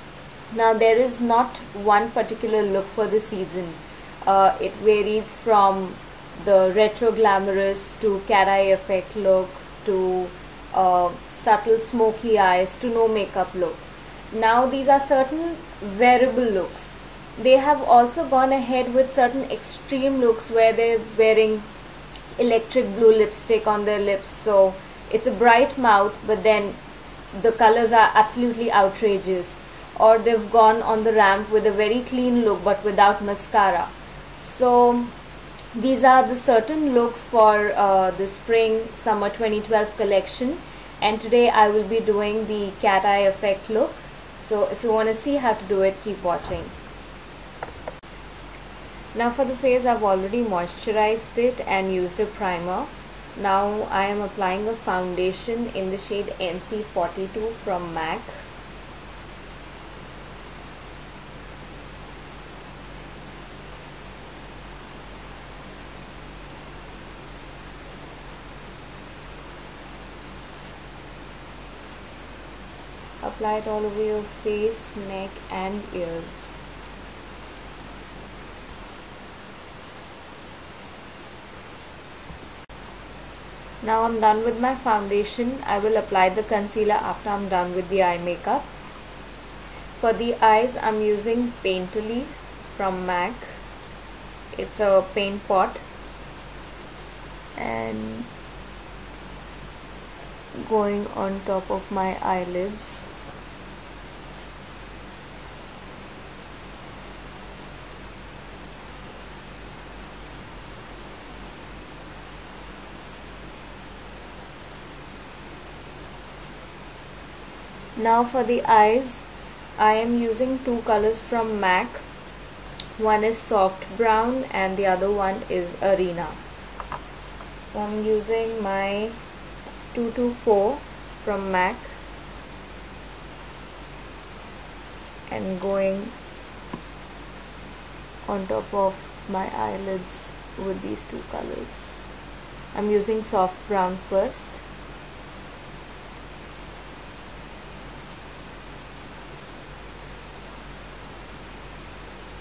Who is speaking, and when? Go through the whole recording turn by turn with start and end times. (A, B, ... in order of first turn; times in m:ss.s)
0:00.5-0:21.7 A
0:22.4-0:26.8 A
0:27.3-0:35.1 A
0:35.7-0:46.7 A
0:49.1-0:58.3 A
1:13.2-1:16.5 A
1:23.8-1:28.6 A
1:29.9-1:33.6 A
1:34.5-1:35.8 A
1:37.6-1:38.3 A
1:40.5-1:43.1 A
1:58.0-1:59.2 A
1:59.8-2:02.0 A
2:03.0-2:06.4 A
2:07.6-2:09.2 A
2:09.9-2:12.0 A
2:15.3-2:16.1 A
2:18.2-2:22.1 A
2:22.7-2:24.6 A